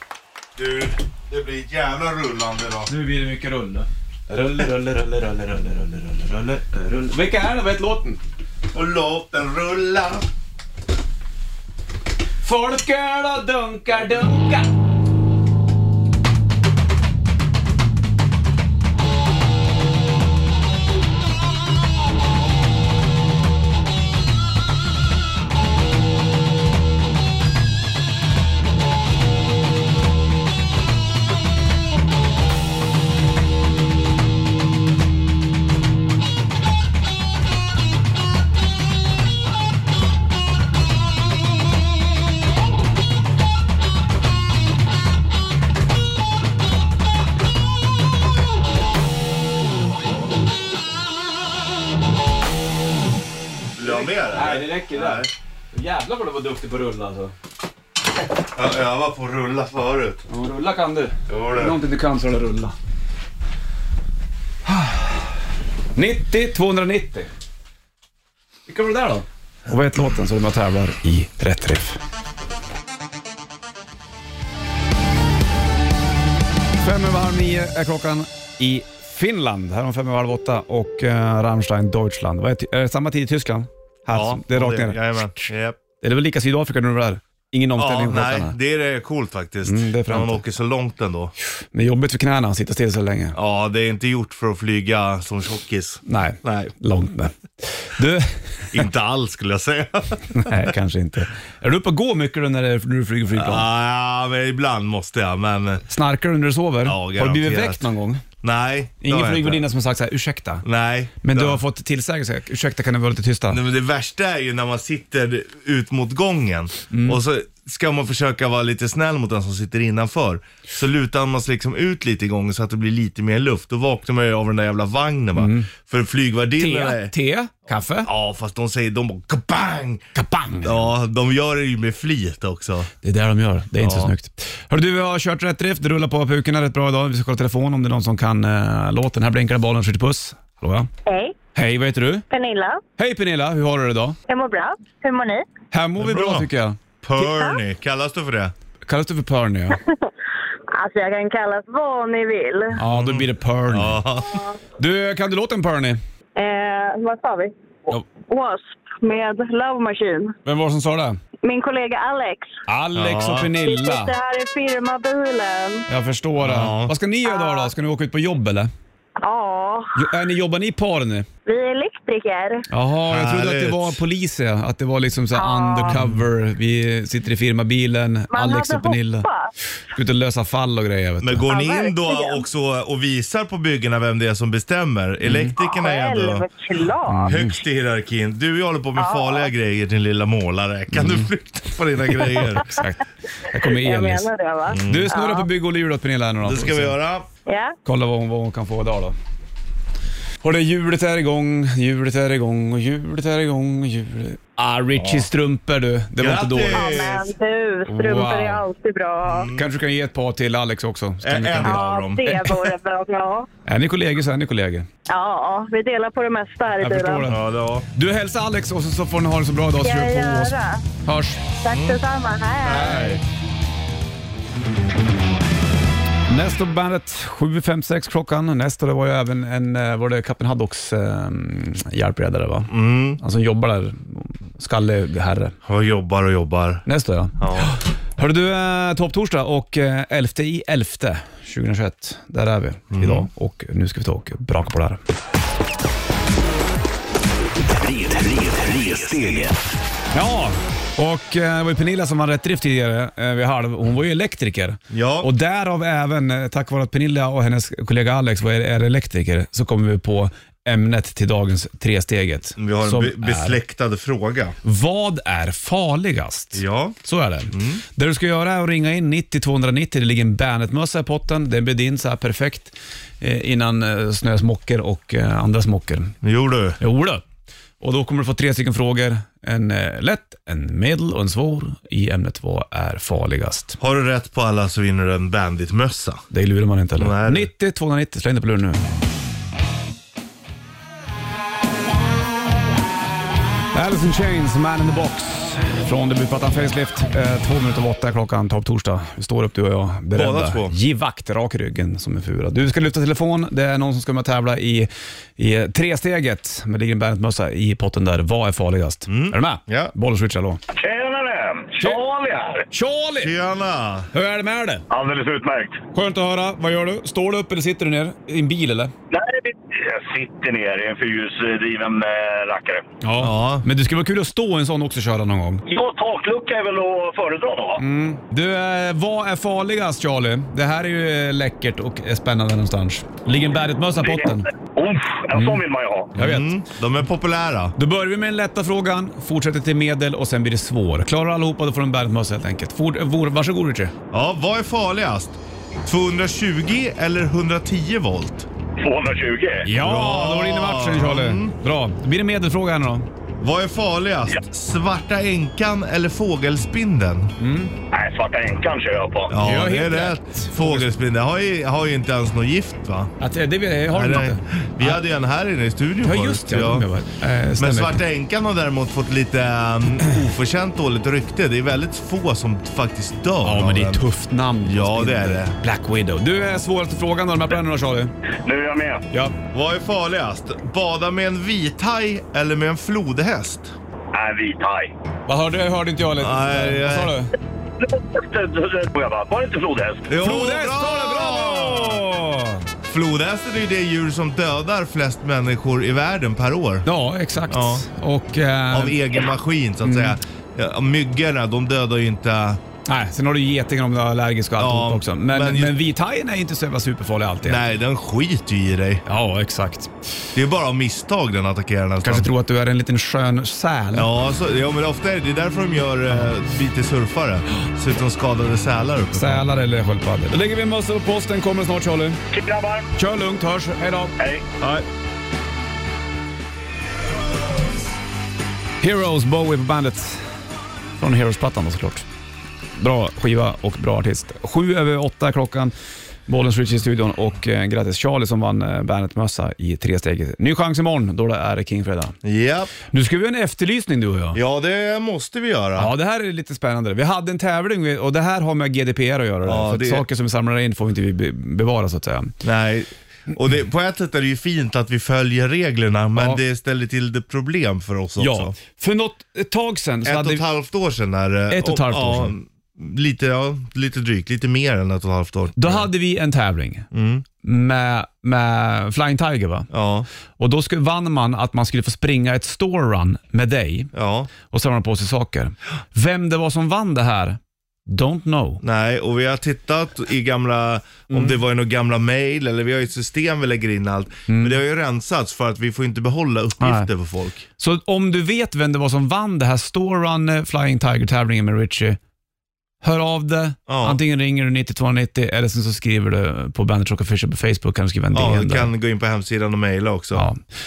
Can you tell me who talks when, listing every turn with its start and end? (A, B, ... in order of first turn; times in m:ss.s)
0:00.5-0:02.9 A
0:02.9-0:08.2 B
0:08.7-0:10.3 A
0:12.4-0:14.7 B
0:53.7-0:55.3 A
0:53.8-0:57.3 B
0:58.5-1:00.2 A
1:00.3-1:02.7 B
1:01.3-1:01.8 A
1:04.6-1:05.2 B
1:05.9-1:07.3 B
1:08.7-1:12.0 B
1:16.8-1:25.5 B
1:24.1-1:25.8 A
1:26.0-1:28.5 B
1:27.8-1:31.3 A
1:29.6-1:30.4 B
1:31.6-1:33.4 B
1:33.3-1:36.7 A
1:36.0-1:38.8 B
1:38.7-1:40.7 A
1:40.3-1:43.7 B
1:43.3-1:45.8 A
1:45.9-1:48.2 B
1:46.8-1:47.8 A
1:48.4-1:49.7 A
1:49.0-1:50.6 B
1:50.6-1:51.6 A
1:51.2-1:53.6 B
1:53.5-2:07.1 A
1:56.9-1:57.2 B
2:05.4-2:05.7 B
2:06.6-2:08.1 B
2:08.0-2:10.1 A
2:10.1-2:10.9 B
2:10.6-2:12.9 A
2:13.0-2:20.9 B
2:13.8-2:14.1 A
2:21.0-2:21.3 C
2:21.5-2:22.2 B
2:22.3-2:22.8 C
2:23.0-2:24.2 B
2:24.3-2:25.4 C
2:25.7-2:26.8 B
2:26.0-2:26.5 A
2:27.0-2:28.5 A
2:27.2-2:27.6 C
2:28.9-2:29.8 B
2:30.7-2:32.8 C
2:32.8-2:34.0 B
2:32.9-2:34.4 A
2:34.8-2:36.0 B
2:36.4-2:37.5 C
2:38.2-2:40.4 C
2:40.4-2:41.2 B
2:41.4-2:42.5 C
2:42.7-2:44.1 B
2:42.9-2:43.5 A
2:43.6-2:45.8 C
2:45.9-2:48.7 B
2:46.4-2:46.9 A
2:47.2-2:47.7 C
2:49.2-2:50.0 C
2:49.9-2:51.3 B
2:51.4-2:52.6 C
2:52.7-2:59.3 B
2:53.1-2:54.0 A
2:55.3-2:56.0 C
2:55.9-2:56.2 A
2:58.3-2:59.5 C
2:59.9-3:01.4 B
3:01.2-3:06.5 A
3:01.5-3:02.4 C
3:05.2-3:05.5 B
3:05.6-3:07.3 C
3:07.1-3:07.5 B
3:07.3-3:12.8 A
3:09.0-3:09.5 C
3:10.9-3:11.3 B
3:12.3-3:14.3 B
3:13.6-3:15.5 C
3:14.7-3:15.1 A
3:14.8-3:17.0 B
3:16.4-3:17.3 A
3:17.5-3:17.7 C
3:17.8-3:19.2 B
3:20.4-3:26.9 B
3:24.9-3:25.3 A
3:26.2-3:27.3 A
3:26.7-3:29.5 C
3:27.9-3:28.6 B
3:29.2-3:29.7 A
3:29.5-3:32.5 B
3:31.2-3:32.4 A
3:31.6-3:33.5 C
3:33.6-3:34.9 B
3:35.1-3:37.3 C
3:36.8-3:37.4 B
3:37.3-3:37.9 A
3:37.9-3:41.4 B
3:39.8-3:40.8 C
3:41.6-3:43.2 C
3:41.7-3:42.0 A
3:42.6-3:43.2 A
3:42.7-3:43.2 B
3:46.3-3:55.6 B
3:52.7-3:53.2 A
3:55.6-3:56.8 A
3:56.8-4:05.0 B
3:57.4-3:57.7 A
4:02.9-4:03.3 A
4:07.7-4:09.6 D
4:10.1-4:23.6 B
4:14.9-4:15.3 A
4:22.6-4:24.6 A
4:24.6-4:36.2 B
4:26.5-4:27.0 A
4:27.5-4:27.8 A
4:36.2-4:36.8 A
4:36.8-4:37.2 B
4:37.8-4:43.8 B
4:43.8-4:46.2 A
4:46.3-4:48.8 B
4:47.0-4:47.5 A
4:53.7-5:10.6 B
5:00.1-5:00.8 A
5:09.1-5:09.9 A
5:10.7-5:12.6 E
5:12.7-5:13.3 B
5:13.2-5:14.1 A
5:14.1-5:14.8 B
5:14.9-5:15.8 E
5:15.9-5:18.9 B
5:19.1-5:22.8 E
5:23.0-5:25.6 B
5:23.2-5:23.6 A
5:25.7-5:27.8 E
5:27.8-5:34.5 B
5:34.0-5:36.1 E
5:35.3-5:35.6 B
5:36.1-5:36.5 B
5:36.2-5:37.7 A
5:37.8-5:43.9 B
5:44.1-5:48.5 A
5:48.8-5:49.7 E
5:49.6-5:53.1 B
5:49.7-5:51.5 A
5:53.4-5:57.3 A
5:57.4-5:57.7 B
5:57.9-5:59.3 E
5:59.3-6:03.1 A
5:59.4-6:00.9 B
6:03.2-6:05.0 B
6:03.9-6:06.9 A
6:06.0-6:08.0 B
6:07.6-6:14.0 A
6:13.4-6:18.1 B
6:14.6-6:15.6 A
6:18.4-6:19.0 E
6:19.1-6:19.4 B
6:19.5-6:23.7 A
6:24.1-6:24.9 E
6:25.3-6:27.3 B
6:26.2-6:27.1 A
6:27.8-6:30.1 E
6:30.1-6:32.1 A
6:30.2-6:32.6 B
6:32.8-6:36.9 A
6:36.8-6:39.0 B
6:37.5-6:37.9 A
6:38.7-6:42.6 A
6:39.8-6:40.2 B
6:42.8-6:47.6 B
6:44.6-6:45.8 A
6:47.4-6:49.0 A
6:49.0-6:50.1 B
6:50.3-6:52.3 A
6:52.0-6:54.1 B
6:53.9-6:59.5 A
6:59.1-7:02.2 B
7:02.3-7:02.9 E
7:02.9-7:04.8 B
7:04.2-7:04.5 E
7:08.8-7:10.3 B
7:11.0-7:12.0 B
7:12.8-7:15.7 B
7:16.3-7:22.2 B
7:22.2-7:22.7 A
7:22.9-7:24.4 B
7:24.3-7:25.9 A
7:25.8-7:32.3 B
7:29.4-7:30.0 A
7:32.4-7:38.5 A
7:38.2-7:40.4 B
7:40.0-7:45.9 A
7:41.5-7:42.3 B
7:45.6-7:46.9 B
7:46.9-7:47.2 A
7:47.4-7:49.7 B
7:49.7-7:50.1 A
7:50.4-7:53.9 B
7:53.9-7:54.3 A
7:54.4-7:58.6 B
7:58.6-8:07.5 A
8:01.1-8:01.3 B
8:04.3-8:04.6 B
8:06.6-8:06.9 B
8:07.6-8:12.0 B
8:12.8-8:18.7 B
8:13.7-8:14.0 A
8:18.1-8:20.3 A
8:20.1-8:20.4 B